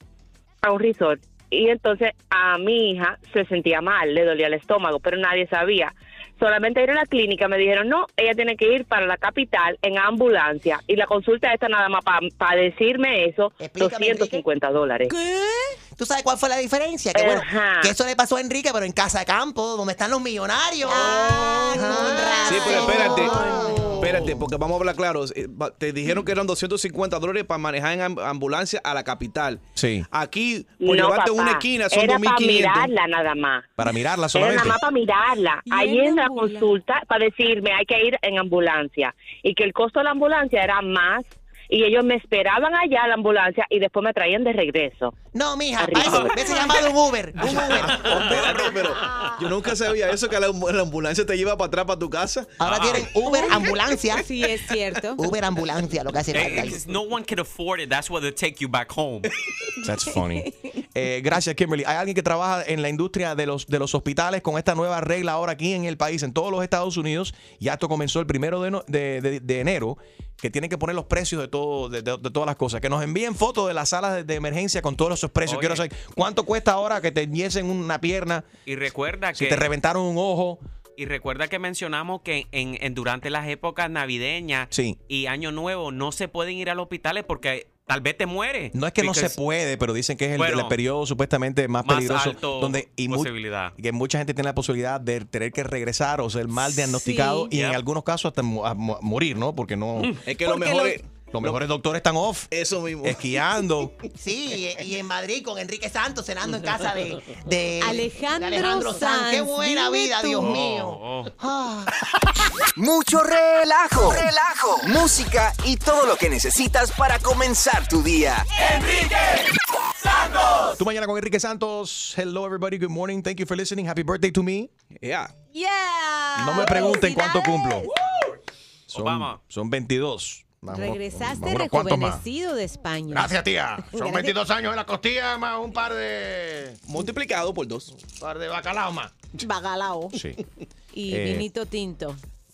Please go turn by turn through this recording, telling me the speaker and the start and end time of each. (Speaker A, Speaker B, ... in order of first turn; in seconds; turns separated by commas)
Speaker A: 0.6-15.1, Speaker B: 13.6-14.4, Speaker C: 15.1-15.8, Speaker B: 16.0-24.3, Speaker A: 17.1-17.9, Speaker C: 20.9-24.2, Speaker D: 22.4-23.4, Speaker D: 24.0-32.9, Speaker E: 29.8-30.1, Speaker A: 30.8-33.7, Speaker E: 33.8-34.8, Speaker A: 34.3-45.1, Speaker C: 35.6-36.8, Speaker B: 45.3-48.1, Speaker A: 45.8-46.5, Speaker C: 46.3-46.7, Speaker D: 47.9-52.6, Speaker F: 48.3-48.8, Speaker C: 49.0-49.3, Speaker B: 52.6-54.3, Speaker F: 52.6-53.1, Speaker C: 53.2-55.2, Speaker B: 55.2-56.8, Speaker F: 56.3-59.3, Speaker E: 59.8-78.5, Speaker C: 60.1-60.5, Speaker F: 75.5-75.8, Speaker F: 78.7-79.7, Speaker E: 79.3-80.6, Speaker F: 81.0-89.3, Speaker E: 84.7-85.0, Speaker E: 88.7-100.2, Speaker F: 90.3-90.7, Speaker F: 91.8-93.7, Speaker C: 96.6-97.5, Speaker F: 97.5-97.8, Speaker D: 100.2-101.6, Speaker C: 100.4-101.0, Speaker E: 101.3-103.9, Speaker D: 102.5-103.2, Speaker B: 104.2-111.9, Speaker C: 107.8-110.5, Speaker F: 110.4-111.3, Speaker G: 112.8-118.5, Speaker E: 120.7-124.7, Speaker D: 125.0-125.3, Speaker C: 125.5-127.9, Speaker E: 126.3-127.9, Speaker E: 128.9-132.2, Speaker F: 128.9-129.4, Speaker C: 130.7-134.3, Speaker E: 133.1-136.8, Speaker D: 136.8-137.9, Speaker E: 138.2-139.1, Speaker B: 138.5-139.1, Speaker C: 139.4-140.2, Speaker E: 140.1-140.4, Speaker C: 140.9-142.2, Speaker E: 141.1-141.4